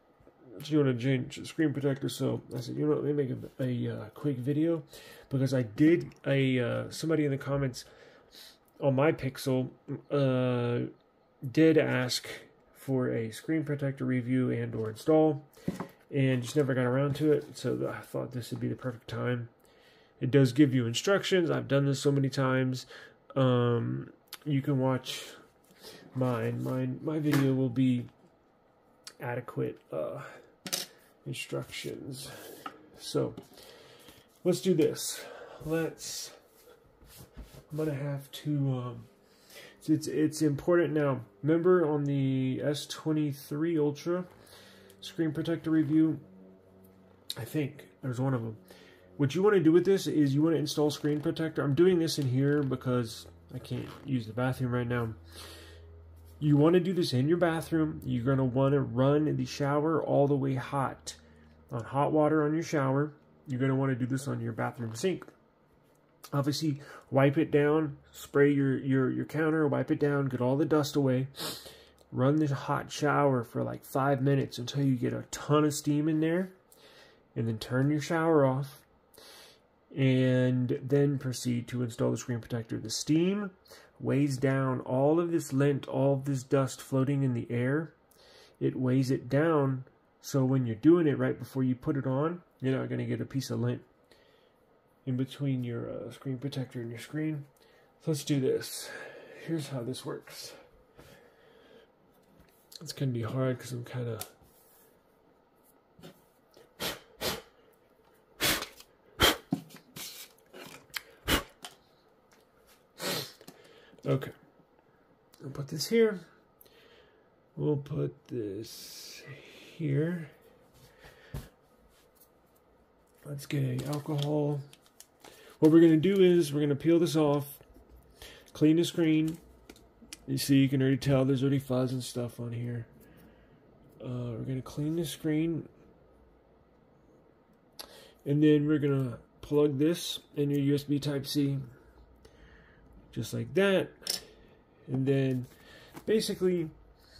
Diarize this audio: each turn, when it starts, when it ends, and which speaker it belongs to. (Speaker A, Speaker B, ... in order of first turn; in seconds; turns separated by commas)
Speaker A: 0.5-7.9, Speaker A: 8.8-10.9, Speaker A: 11.4-15.5, Speaker A: 16.1-19.5, Speaker A: 20.2-25.4, Speaker A: 26.1-28.1, Speaker A: 29.2-30.3, Speaker A: 31.2-33.4, Speaker A: 34.4-36.4, Speaker A: 37.7-39.1, Speaker A: 39.8-44.3, Speaker A: 45.0-46.2, Speaker A: 47.4-48.6, Speaker A: 49.2-55.2, Speaker A: 56.4-61.2, Speaker A: 61.7-65.3, Speaker A: 66.3-76.5, Speaker A: 77.3-78.8, Speaker A: 79.9-88.0, Speaker A: 88.6-93.8, Speaker A: 95.0-97.5, Speaker A: 98.0-100.6, Speaker A: 102.8-104.3, Speaker A: 114.0-114.3, Speaker A: 115.4-116.3, Speaker A: 117.5-120.3, Speaker A: 123.2-124.6, Speaker A: 125.6-127.6, Speaker A: 128.5-129.4, Speaker A: 130.3-132.9, Speaker A: 134.0-135.7, Speaker A: 138.2-141.6, Speaker A: 143.1-144.3, Speaker A: 144.9-145.5, Speaker A: 146.0-146.7